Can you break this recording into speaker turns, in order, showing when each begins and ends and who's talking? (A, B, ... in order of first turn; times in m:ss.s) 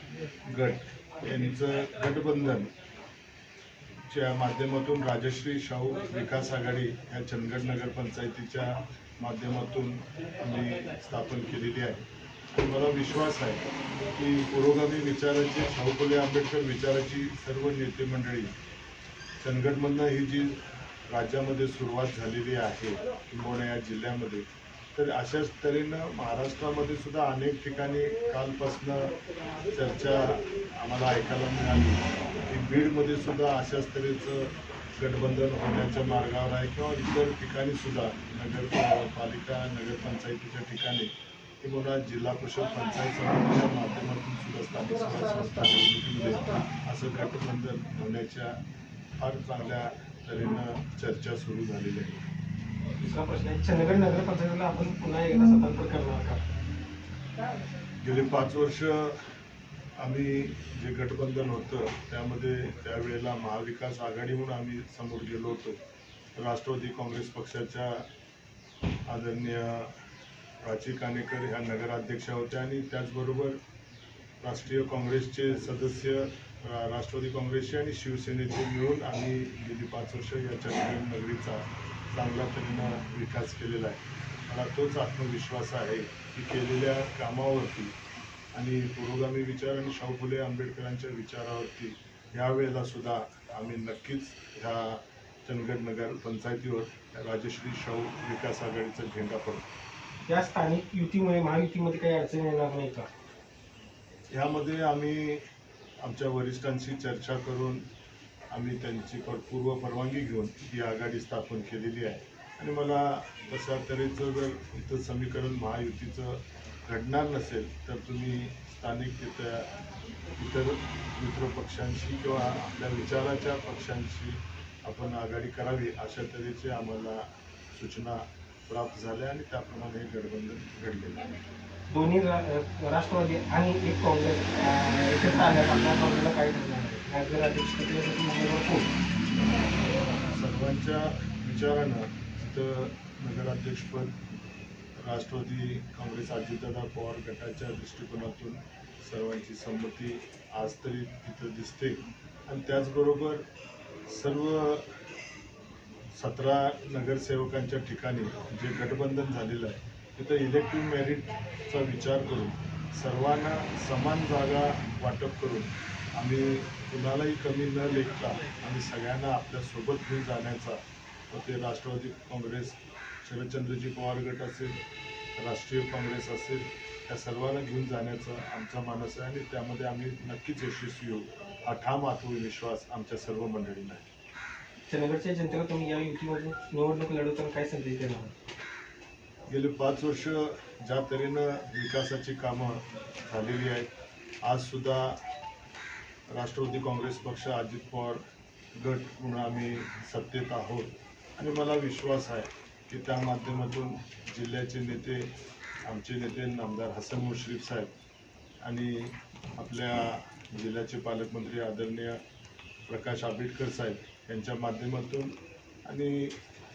0:00.4-0:02.7 A
0:04.1-0:18.6 A
0:19.4-0:29.2 A
0:29.7-0:41.1 A
0:41.6-0:48.6 A
0:49.2-0:52.2 A
0:53.0-0:56.4 B
0:58.0-0:59.2 A
1:00.0-1:05.8 A
1:06.4-1:08.1 A
1:09.1-1:09.9 A
1:10.6-1:13.6 A
1:14.4-1:27.9 A
1:28.5-1:39.6 A
1:40.3-1:43.1 B
1:44.3-1:45.4 A
1:46.0-1:47.9 A
1:48.5-1:59.8 A
2:00.3-2:11.3 A
2:11.9-2:18.9 B
2:20.2-2:24.2 A
2:25.0-2:33.4 A
2:34.0-2:35.0 A
2:36.1-2:54.8 A
2:55.4-3:04.1 A
3:04.9-3:08.3 B
3:09.5-3:13.9 A
3:14.4-3:15.2 A
3:16.3-3:18.2 A
3:18.8-3:25.3 A
3:25.8-3:27.9 A
3:28.6-3:32.2 A
3:32.9-3:36.4 A